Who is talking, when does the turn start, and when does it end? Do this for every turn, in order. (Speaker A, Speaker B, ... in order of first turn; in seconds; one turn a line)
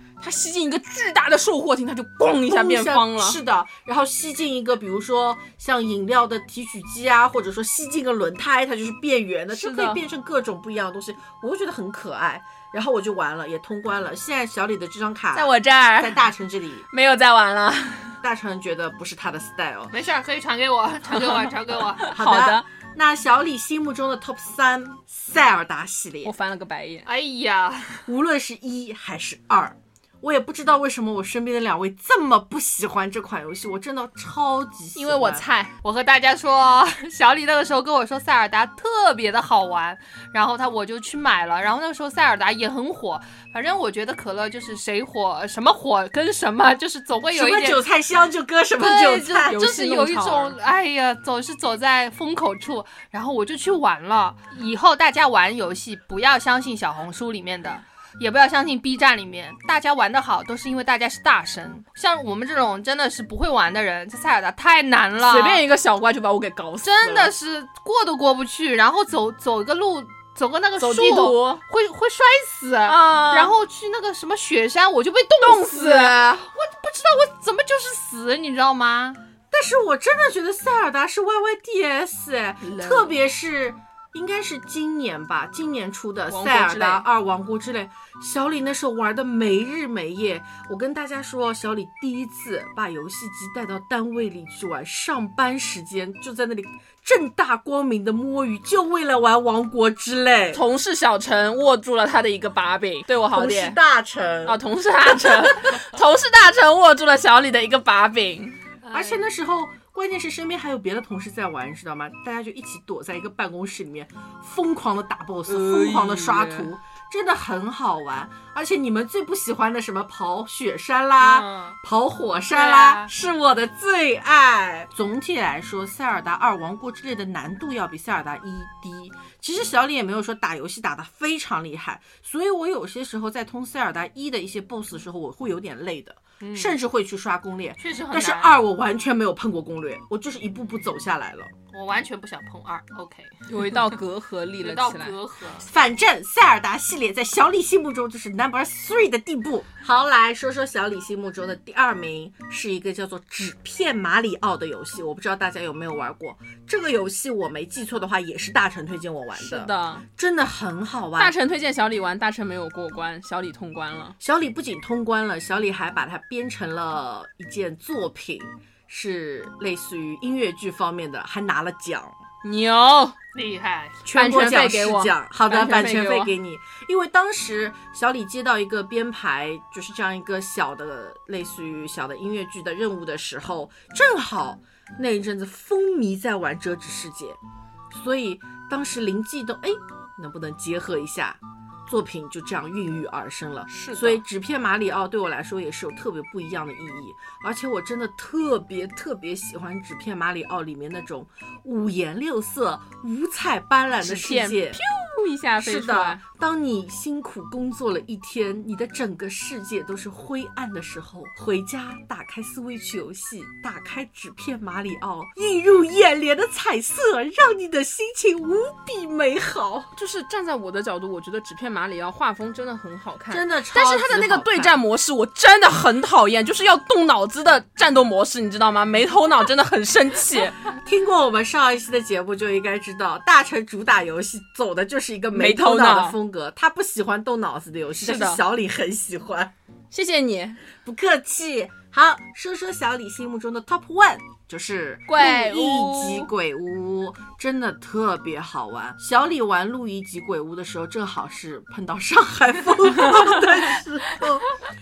Speaker A: 0.2-3.4
Speaker B: 2.4-16.9
Speaker A: 9.5-10.0
Speaker A: 15.3-16.2
Speaker A: 16.9-18.2
Speaker B: 18.2-19.9
Speaker C: 19.9-22.1
Speaker A: 22.0-22.6
Speaker B: 22.1-26.3
Speaker A: 26.2-27.1
Speaker C: 27.1-28.1
Speaker B: 28.1-35.4
Speaker A: 34.9-35.7
Speaker C: 35.8-47.8
Speaker B: 47.3-49.6
Speaker C: 48.8-65.6
Speaker A: 49.4-50.6
Speaker A: 65.2-67.3
Speaker C: 66.8-79.2
Speaker A: 70.8-71.6
Speaker A: 72.9-73.5
Speaker A: 75.4-76.5
Speaker B: 79.5-100.6
Speaker A: 82.6-83.1
Speaker A: 86.3-87.0
Speaker A: 100.5-103.8
Speaker B: 103.3-105.4
Speaker A: 104.5-108.6
Speaker C: 108.8-109.2
Speaker B: 108.9-141.5
Speaker A: 115.5-116.7
Speaker C: 121.2-121.8
Speaker C: 122.5-123.1
Speaker C: 136.4-136.8
Speaker C: 137.8-138.5
Speaker C: 141.7-143.8
Speaker A: 143.5-145.1
Speaker C: 144.6-145.7
Speaker B: 145.6-161.3
Speaker A: 159.3-160.1
Speaker A: 161.2-164.2
Speaker B: 164.2-172.2
Speaker A: 172.4-173.2
Speaker C: 173.3-174.0
Speaker B: 174.0-187.4
Speaker A: 174.1-176.3
Speaker B: 187.9-204.8
Speaker A: 193.7-194.2
Speaker A: 204.0-206.2
Speaker B: 205.6-219.9
Speaker A: 219.9-230.6
Speaker B: 223.3-224.8
Speaker B: 230.8-239.5
Speaker A: 235.3-236.2
Speaker A: 238.0-238.4
Speaker A: 239.9-240.6
Speaker B: 240.8-254.5
Speaker A: 245.1-246.3